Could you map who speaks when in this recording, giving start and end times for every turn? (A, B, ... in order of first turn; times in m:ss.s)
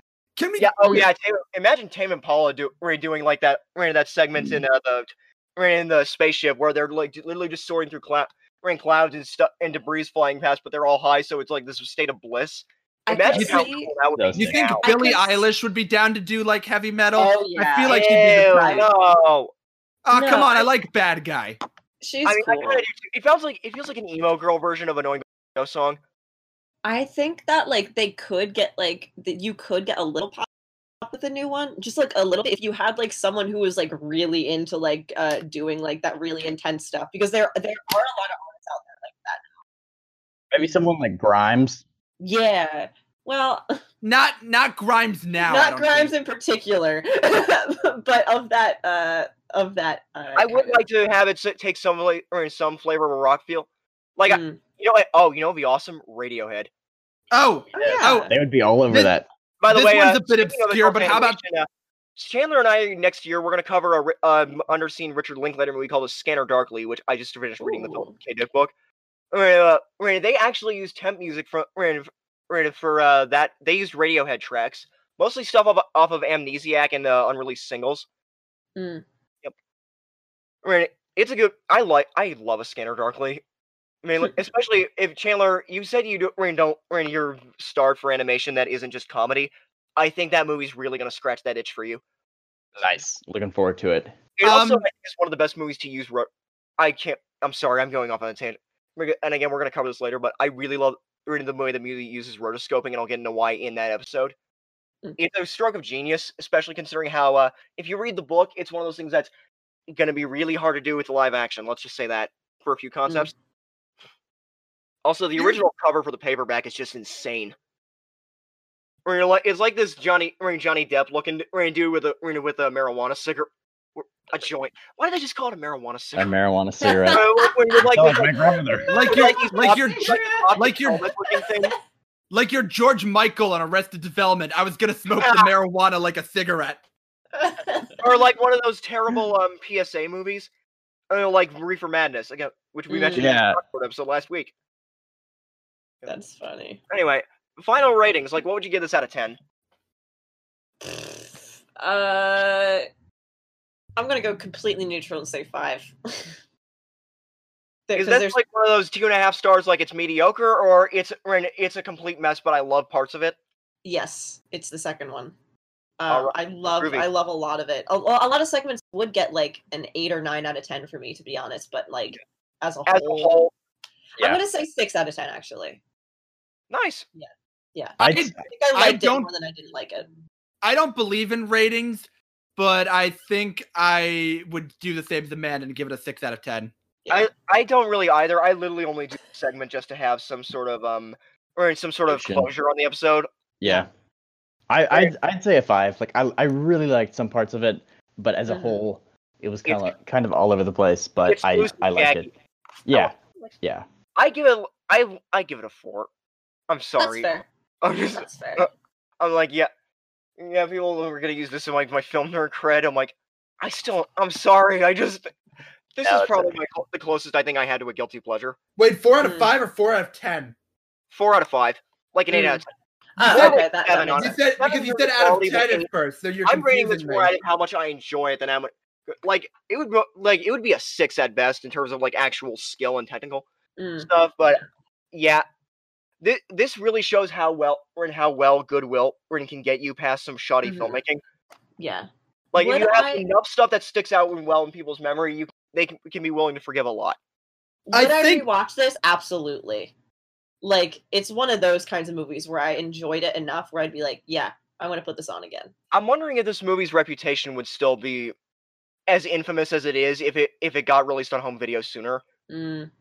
0:00.4-0:01.0 A
0:00.6-0:14.8 B
0:00.8-0:01.1 C
0:13.0-0:13.9 C
0:13.3-0:13.6 D
0:13.4-0:13.6 A
0:14.2-0:14.6 D
0:14.3-0:18.8 A
0:14.8-0:15.4 C
0:17.2-0:18.9 C
0:17.9-0:19.5 B
0:20.0-0:21.6 A
0:20.1-0:20.6 C
0:22.0-0:22.8 C
0:22.2-0:26.0 B
0:26.8-0:30.5 C
0:31.0-0:39.4 C
0:40.5-0:41.8 D
0:42.2-0:43.8 C
0:44.0-0:46.1 A
0:45.4-0:50.8 C
0:50.4-0:56.7 B
0:54.3-0:54.6 C
0:57.3-0:58.3 A
0:57.7-0:58.3 C
0:58.3-0:59.3 D
0:58.9-0:59.2 A
0:59.6-1:08.7 B
0:59.7-1:01.4 A
1:07.6-1:08.1 C
1:09.3-1:18.1 B
1:18.8-1:19.0 C
1:20.6-1:23.4 B
1:24.0-1:32.0 B
1:32.8-1:34.2 D
1:34.4-1:44.3 B
1:34.4-1:34.8 A
1:45.2-1:49.3 B
1:49.9-1:53.3 B
1:55.0-1:57.5 B
1:59.0-2:06.3 B
2:06.2-2:07.2 D
2:06.8-2:07.8 C
2:07.1-2:11.7 B
2:07.9-2:08.9 D
2:08.3-2:10.5 C
2:08.9-2:11.0 A
2:11.2-2:11.7 C
2:12.3-2:16.8 A
2:15.2-2:15.5 B
2:17.4-2:18.1 C
2:18.0-2:20.5 B
2:21.1-2:24.5 B
2:22.9-2:23.3 C
2:23.1-2:23.6 D
2:26.0-2:26.8 C
2:26.9-2:29.4 B
2:30.8-2:32.8 C
2:34.0-2:36.3 C
2:37.9-2:38.4 C
2:37.9-2:43.4 B
2:43.8-2:45.3 C
2:46.0-2:53.4 C
2:46.1-2:47.0 B
2:52.9-2:53.5 B
2:54.2-2:55.8 C
2:56.7-2:57.0 B
2:57.2-3:00.1 C
2:58.0-2:58.4 D
2:58.0-2:59.3 A
3:00.6-3:06.7 A
3:07.1-3:13.3 B
3:12.1-3:12.5 D
3:13.6-3:13.9 D
3:14.7-3:22.3 D
3:18.5-3:18.8 C
3:19.6-3:19.9 B
3:21.2-3:22.3 B
3:22.8-3:23.8 D
3:22.9-3:23.5 B
3:24.2-3:26.1 B
3:26.7-3:27.3 B
3:27.0-3:27.4 C
3:27.8-3:29.7 B
3:28.0-3:28.7 C
3:30.4-3:35.3 B
3:36.0-3:38.6 B
3:36.0-3:36.6 D
3:38.8-3:40.5 A
3:39.2-3:39.5 C
3:41.1-3:42.6 B
3:42.3-3:42.6 C
3:43.2-3:44.3 C
3:43.2-3:45.9 B
3:43.2-3:43.6 A
3:44.2-3:47.3 A
3:46.4-3:53.4 B
3:53.8-3:54.1 C
3:54.0-3:54.6 B
3:55.1-3:55.4 B
3:56.2-4:01.2 B
4:00.6-4:01.0 C
4:01.8-4:03.2 C
4:02.5-4:07.2 B
4:07.9-4:09.9 C
4:07.9-4:08.4 A
4:10.6-4:15.7 C
4:15.9-4:18.3 B
4:19.1-4:22.2 B
4:22.5-4:22.9 C